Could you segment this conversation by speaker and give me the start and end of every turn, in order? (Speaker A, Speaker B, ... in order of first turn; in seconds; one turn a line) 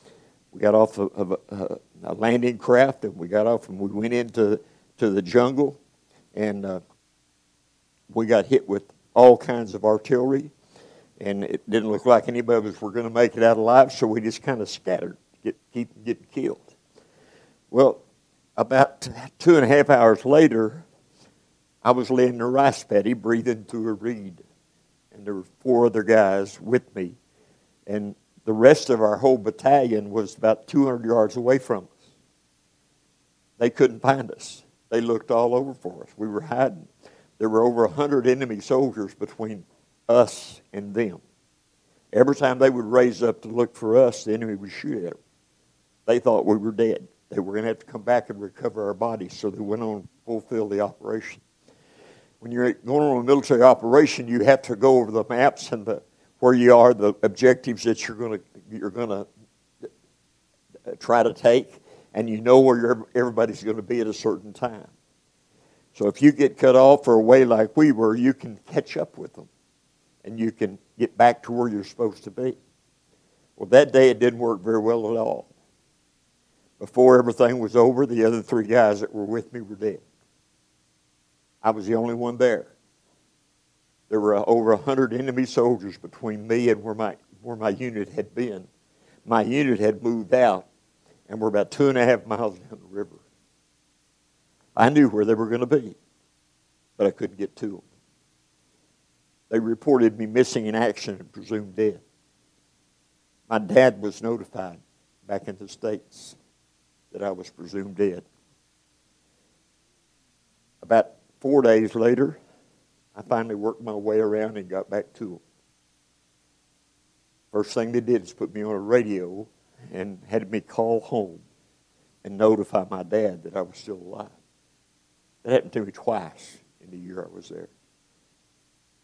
Speaker A: 0.5-5.8
Speaker A: 6.3-6.8
Speaker A: 8.1-10.5
Speaker A: 11.2-16.7
Speaker A: 17.7-18.0
Speaker A: 18.6-20.9
Speaker A: 21.8-24.4
Speaker A: 25.1-27.2
Speaker A: 27.9-31.9
Speaker A: 33.6-36.9
Speaker A: 37.4-41.2
Speaker A: 42.1-45.2
Speaker A: 46.1-51.4
Speaker A: 52.4-59.3
Speaker A: 60.9-64.9
Speaker A: 66.0-69.5
Speaker A: 70.2-72.6
Speaker A: 73.6-75.5
Speaker A: 76.8-80.0
Speaker A: 81.6-82.7
Speaker A: 84.1-88.7
Speaker A: 89.2-90.7
Speaker A: 91.3-93.2
Speaker A: 94.8-96.0
Speaker A: 97.0-97.8
Speaker A: 99.5-102.0
Speaker A: 103.5-106.4
Speaker A: 107.1-108.3
Speaker A: 110.8-112.4
Speaker A: 113.2-115.4
Speaker A: 117.5-121.4
Speaker A: 122.2-124.3
Speaker A: 125.4-127.7